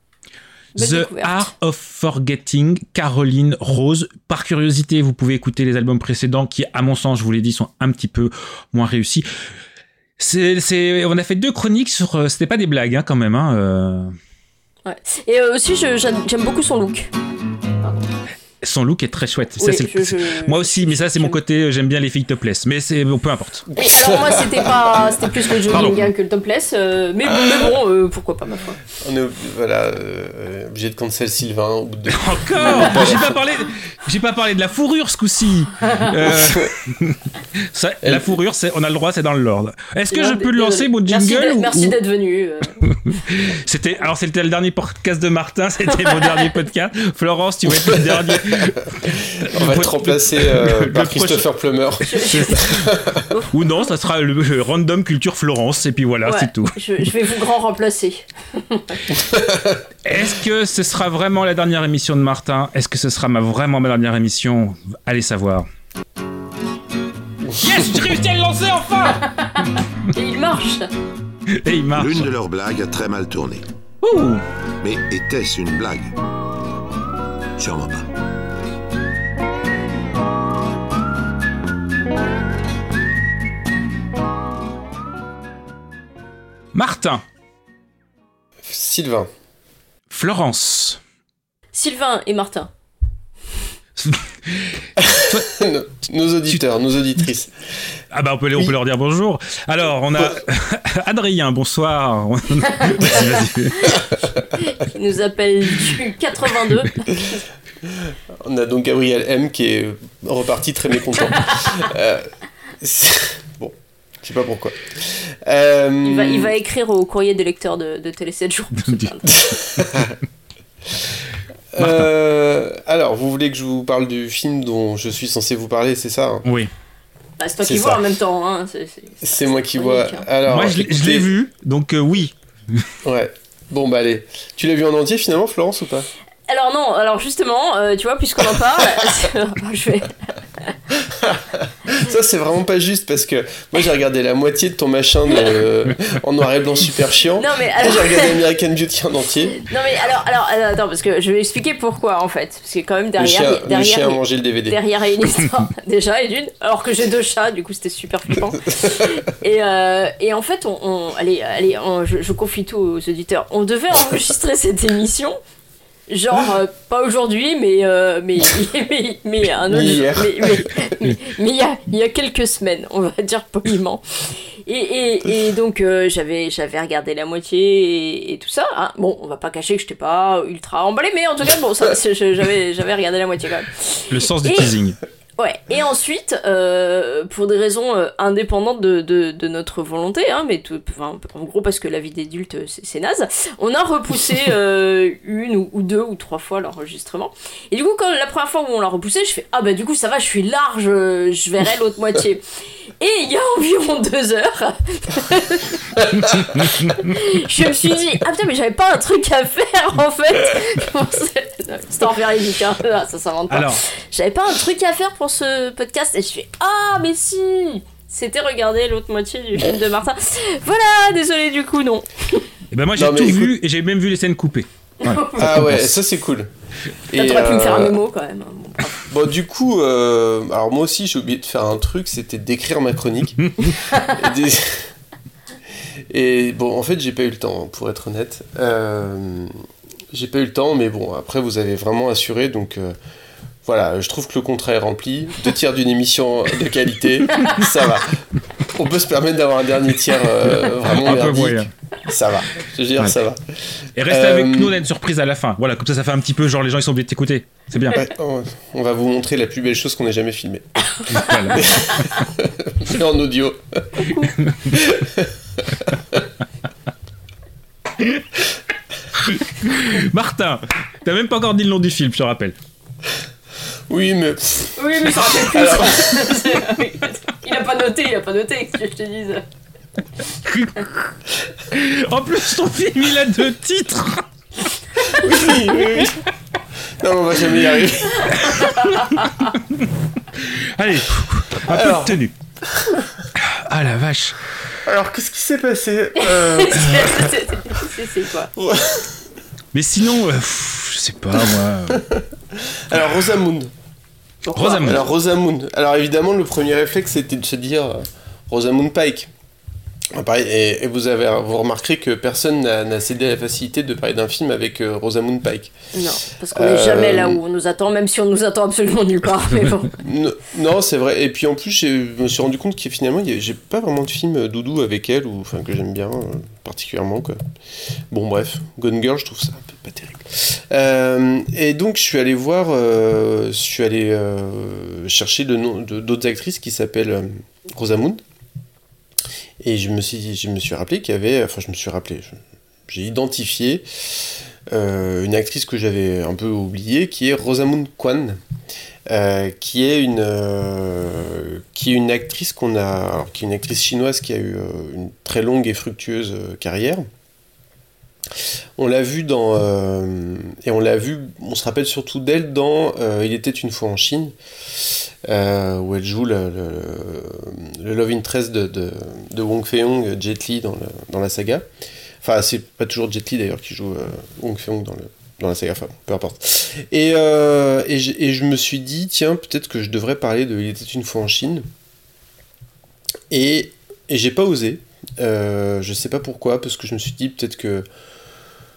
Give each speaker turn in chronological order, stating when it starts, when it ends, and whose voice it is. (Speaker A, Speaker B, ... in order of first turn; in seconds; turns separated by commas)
Speaker A: 0.8-1.5, Speaker B: 0.8-9.3, Speaker B: 10.2-14.1, Speaker A: 14.9-17.1, Speaker B: 18.6-23.7, Speaker A: 19.6-21.4, Speaker C: 23.7-24.7, Speaker A: 23.8-28.8, Speaker B: 25.7-26.1, Speaker C: 29.0-33.4, Speaker B: 32.1-37.2, Speaker A: 35.8-36.1, Speaker C: 36.4-36.7, Speaker B: 37.7-42.0, Speaker C: 38.0-38.3, Speaker A: 40.1-42.8, Speaker B: 43.1-51.5, Speaker A: 45.9-46.5, Speaker C: 47.8-48.6, Speaker C: 49.5-53.2, Speaker A: 52.0-52.7, Speaker B: 52.1-52.9, Speaker B: 53.5-56.8, Speaker A: 56.3-59.0, Speaker C: 59.3-59.8, Speaker B: 60.0-65.7, Speaker B: 67.6-69.3, Speaker A: 69.3-70.9, Speaker B: 71.5-72.3, Speaker D: 71.9-73.6, Speaker B: 74.0-74.4, Speaker D: 74.8-76.1, Speaker D: 77.6-78.1, Speaker B: 86.7-87.2, Speaker C: 88.6-89.3, Speaker B: 90.1-91.0, Speaker A: 91.7-92.7, Speaker B: 94.0-94.7, Speaker C: 95.0-97.5, Speaker B: 95.2-95.5, Speaker B: 98.1-104.1, Speaker A: 104.6-107.4, Speaker C: 107.8-116.5, Speaker A: 111.4-111.8, Speaker A: 116.0-119.5, Speaker B: 118.8-120.0, Speaker C: 119.5-120.1, Speaker C: 121.7-126.5, Speaker B: 121.8-122.1, Speaker B: 126.5-126.7, Speaker A: 127.4-130.3, Speaker C: 127.6-128.0, Speaker C: 129.2-131.3, Speaker B: 130.5-132.8, Speaker C: 133.0-136.1, Speaker A: 136.5-140.7, Speaker C: 141.1-149.6, Speaker A: 147.4-148.4, Speaker A: 149.7-165.4, Speaker C: 153.2-154.8, Speaker A: 166.1-184.7, Speaker C: 169.7-170.7, Speaker B: 184.1-185.0, Speaker A: 185.4-202.4, Speaker A: 203.0-222.5, Speaker B: 213.5-213.8, Speaker B: 222.7-225.9, Speaker C: 222.9-223.5, Speaker A: 225.0-225.5, Speaker C: 225.4-226.5, Speaker C: 227.1-228.0, Speaker A: 227.1-229.0, Speaker C: 229.1-233.4, Speaker B: 233.4-233.7, Speaker C: 234.1-234.9, Speaker C: 236.1-239.5, Speaker C: 240.1-242.9, Speaker C: 243.6-248.2, Speaker C: 248.7-253.4, Speaker B: 250.8-251.7, Speaker B: 254.0-258.1, Speaker C: 254.1-254.8, Speaker C: 257.9-260.6, Speaker B: 261.1-261.7, Speaker C: 261.6-264.1, Speaker A: 264.0-264.3, Speaker C: 264.7-266.2, Speaker B: 269.2-272.6, Speaker C: 273.9-276.5, Speaker A: 274.8-279.4, Speaker B: 280.4-281.1, Speaker B: 281.7-284.2, Speaker A: 285.2-285.4, Speaker C: 285.2-286.1, Speaker C: 287.0-288.4, Speaker A: 288.3-289.4, Speaker B: 288.4-289.9, Speaker B: 290.4-292.3, Speaker C: 291.6-292.2, Speaker B: 293.4-294.5, Speaker C: 294.9-297.1, Speaker A: 296.2-298.5, Speaker C: 298.6-299.2, Speaker B: 299.7-302.1, Speaker C: 302.0-303.7, Speaker B: 302.9-303.3, Speaker C: 304.5-309.3, Speaker B: 304.6-305.1, Speaker C: 310.1-315.8, Speaker A: 315.9-320.0, Speaker C: 316.5-317.4, Speaker C: 320.0-327.4, Speaker C: 328.1-338.2, Speaker C: 339.6-348.4, Speaker C: 349.1-357.1, Speaker C: 358.8-364.4, Speaker C: 365.2-371.6, Speaker C: 372.2-381.6, Speaker C: 383.3-387.9